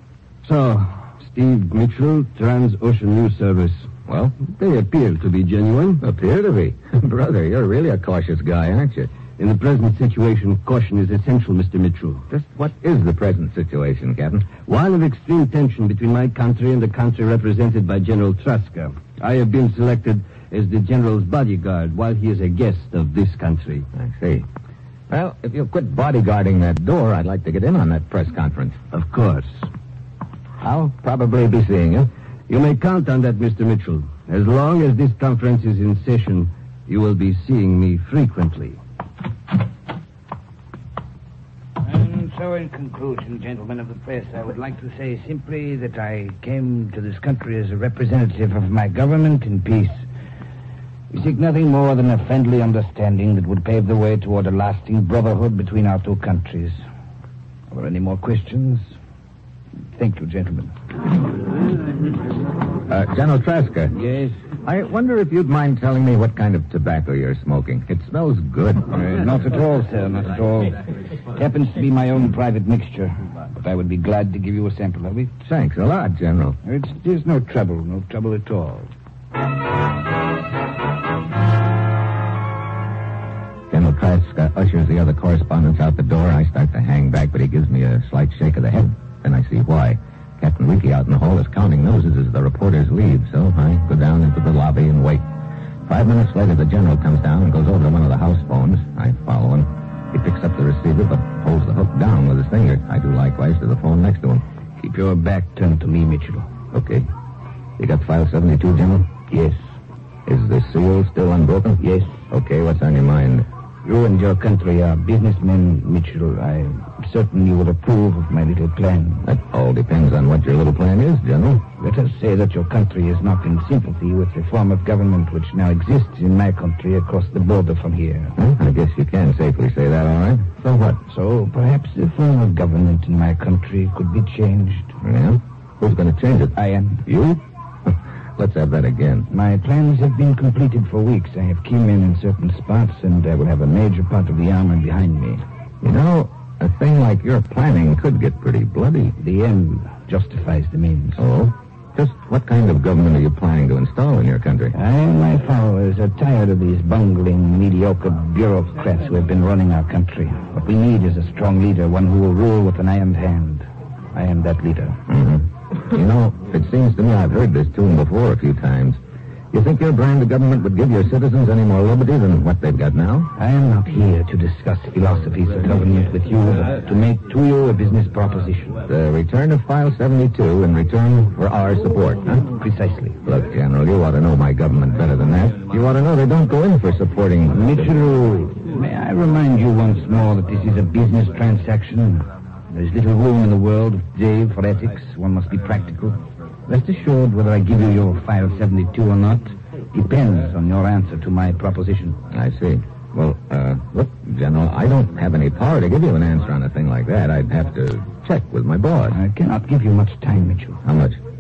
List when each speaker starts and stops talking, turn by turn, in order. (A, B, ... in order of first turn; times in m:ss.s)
0:00.4-0:03.9 A
0:04.1-0:04.4 B
0:04.4-0:06.0 A
0:06.0-0:09.1 B
0:09.4-0:12.2 A
0:12.3-0:14.5 B
0:14.7-0:23.9 A
0:24.0-0:24.5 B
0:25.1-0:28.8 B
0:28.9-0:29.6 A
0:30.6-0:32.1 B
0:32.5-0:38.8 A
0:41.8-0:50.0 C
0:51.1-0:56.8 C
0:57.7-0:58.8 C
1:00.0-1:00.8 C
1:02.9-1:04.0 B
1:04.0-1:04.3 C
1:04.6-1:09.3 B
1:09.0-1:15.4 C
1:15.5-1:16.6 B
1:16.6-1:18.9 C
1:23.7-1:35.2 B
1:35.9-1:44.4 B
1:44.8-1:46.5 C
1:46.7-1:47.1 B
1:47.8-1:49.2 B
1:49.3-1:49.6 C
1:50.3-1:53.5 B
1:51.8-1:52.2 C
1:53.8-1:59.2 C
1:59.2-2:01.7 B
2:01.8-2:08.4 C
2:08.4-2:11.0 B
2:11.1-2:14.9 C
2:15.0-2:16.5 B
2:16.6-2:17.1 C
2:17.1-2:19.3 B
2:19.3-2:25.4 C
2:25.8-2:29.2 B
2:29.2-2:31.2 C
2:31.2-2:34.7 B
2:34.7-2:45.0 C
2:45.1-2:49.0 B
2:49.5-2:53.3 B
2:53.4-2:58.9 C
2:58.9-3:02.5 B
3:02.4-3:03.2 C
3:03.2-3:08.0 B
3:07.5-3:22.2 C
3:22.3-3:29.2 B
3:29.1-3:30.8 C
3:30.8-3:31.2 B